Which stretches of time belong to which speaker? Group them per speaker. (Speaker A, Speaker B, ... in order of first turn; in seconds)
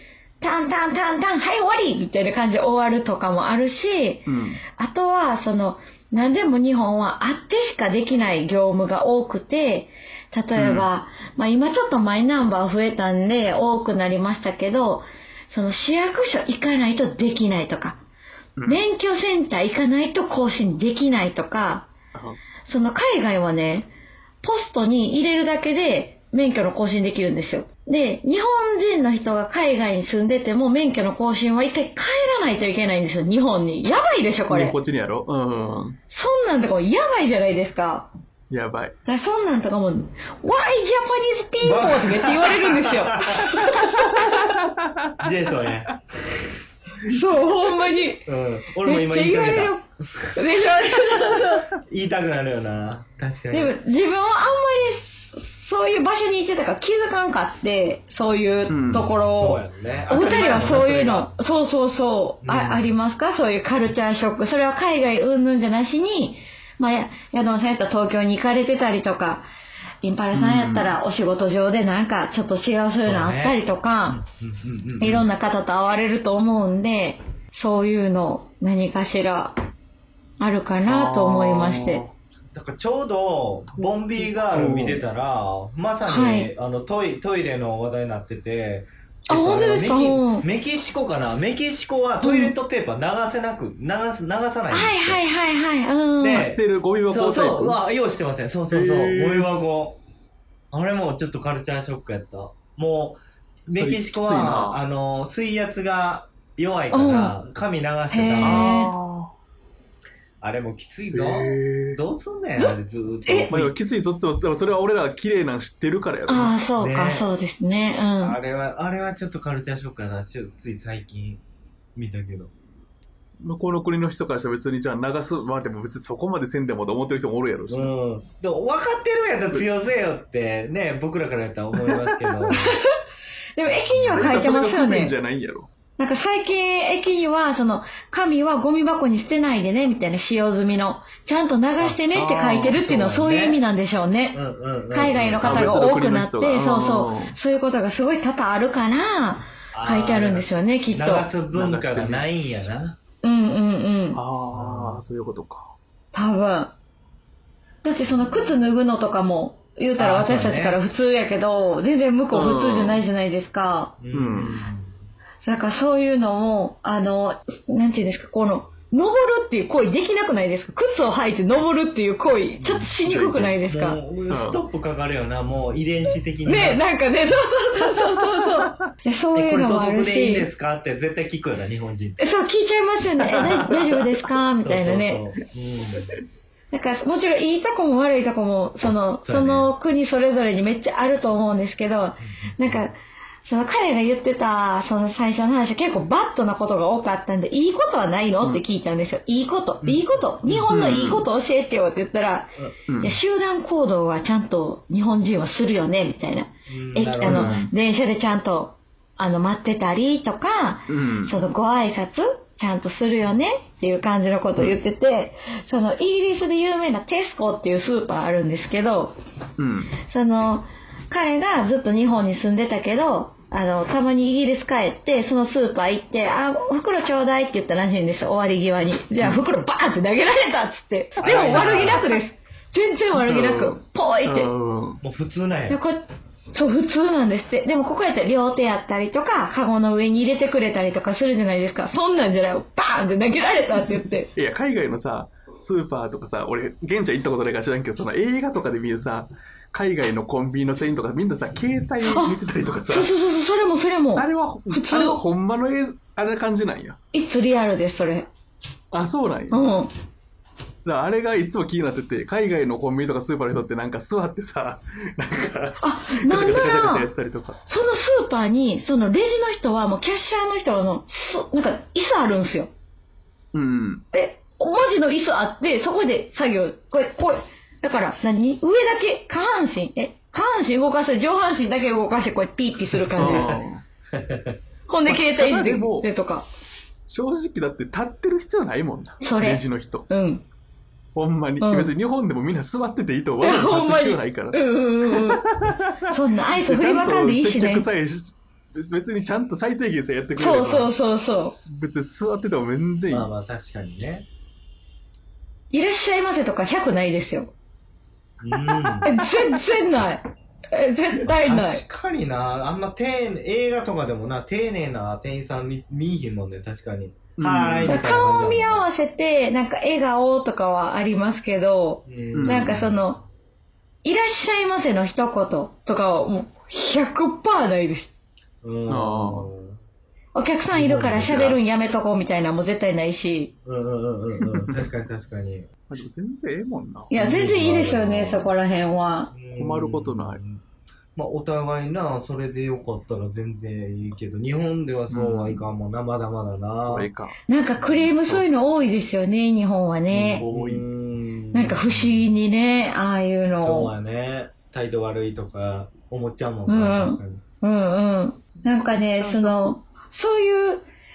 Speaker A: 0.4-18.0, 18.7-21.9, 22.7-23.9, 24.4-34.8, 36.1-38.1, 39.1-44.1, 47.0-48.2, 48.8-49.8, 50.3-51.6, 53.5-69.5, 70.0-74.2, 75.0-79.5, 80.4-82.0, 86.1-86.5, 89.3-90.4, 92.2-92.5, 94.7-96.5, 106.9-107.3, 108.1-108.9, 113.3-113.5, 116.3-118.4, 132.5-132.9, 133.6-135.1, 136.0-144.4, 144.9-151.3, 153.2-154.2, 156.1-156.7, 157.8-163.9, 165.4-174.0, 176.5-180.5, 182.2-185.2, 186.7-219.1, 220.0-234.5, 235.7-236.0, 236.5-244.3, 252.0-252.3, 252.9-255.2, 257.1-258.3, 259.5-259.9, 265.8-267.1, 267.7-272.7, 274.1-283.6, 284.9-286.5, 289.2-290.4, 291.6-291.9, 293.4-295.5, 296.1-297.9, 300.4-301.6, 305.7-307.5, 309.0-311.8, 317.9-323.2, 324.0-328.1, 330.4-333.5, 337.1-339.3, 347.5-350.4, 351.5-353.9, 356.7-360.8
Speaker B: 4.3-4.6, 10.6-10.9, 18.6-18.8, 22.1-22.4, 34.5-36.0, 38.5-38.9, 44.0-45.8, 58.7-59.1, 70.3-70.9, 80.8-82.1, 83.8-85.0, 96.3-97.8, 98.7-99.5, 103.7-104.8, 108.4-109.3, 111.1-112.0, 113.5-116.5, 123.4-127.9, 131.7-132.4, 134.1-135.7, 142.1-142.8, 145.4-147.4, 151.5-152.3, 154.1-155.7, 162.3-163.0, 164.1-164.7, 173.0-173.6, 174.3-174.6, 183.2-184.0, 200.7-201.3, 202.9-203.2, 207.2-207.7, 210.9-211.4, 219.6-219.9, 233.2-235.0, 244.3-253.1, 254.2-257.0, 258.9-259.7, 260.9-267.6, 273.5-274.0, 283.2-283.8, 285.1-286.1, 287.1-290.1, 291.1-300.9, 301.6-303.3, 317.4-318.0, 322.3-322.8, 328.9-329.5, 334.4-334.7, 335.9-337.1, 339.5-340.4, 345.1-345.6, 346.8-347.4, 348.3-348.6, 350.2-350.9, 358.6-359.8
Speaker C: 41.6-43.8, 45.2-46.3, 48.2-53.8, 59.3-61.3, 62.4-63.0, 73.0-75.3, 82.5-95.2, 96.2-100.0, 100.7-108.8, 110.4-113.7, 116.8-117.3, 118.2-121.4, 122.0-122.5, 127.7-132.8, 133.7-134.3, 142.5-143.6, 144.3-145.8, 149.7-153.0, 154.5-155.0, 160.0-160.8, 164.0-164.9, 172.6-172.9, 173.7-176.8, 179.3-182.2, 184.6-186.2, 189.2-189.7, 192.2-192.8, 199.8-200.7, 206.7-207.7, 231.2-232.1, 235.0-235.8, 283.2-283.6, 284.1-284.6, 303.1-304.2, 308.4-309.1, 311.3-318.9, 322.1-323.0, 328.6-329.8, 330.7-331.6, 333.6-335.7, 337.1-338.5, 339.3-340.6, 341.1-347.1, 347.8-348.3, 350.1-352.4, 353.6-357.4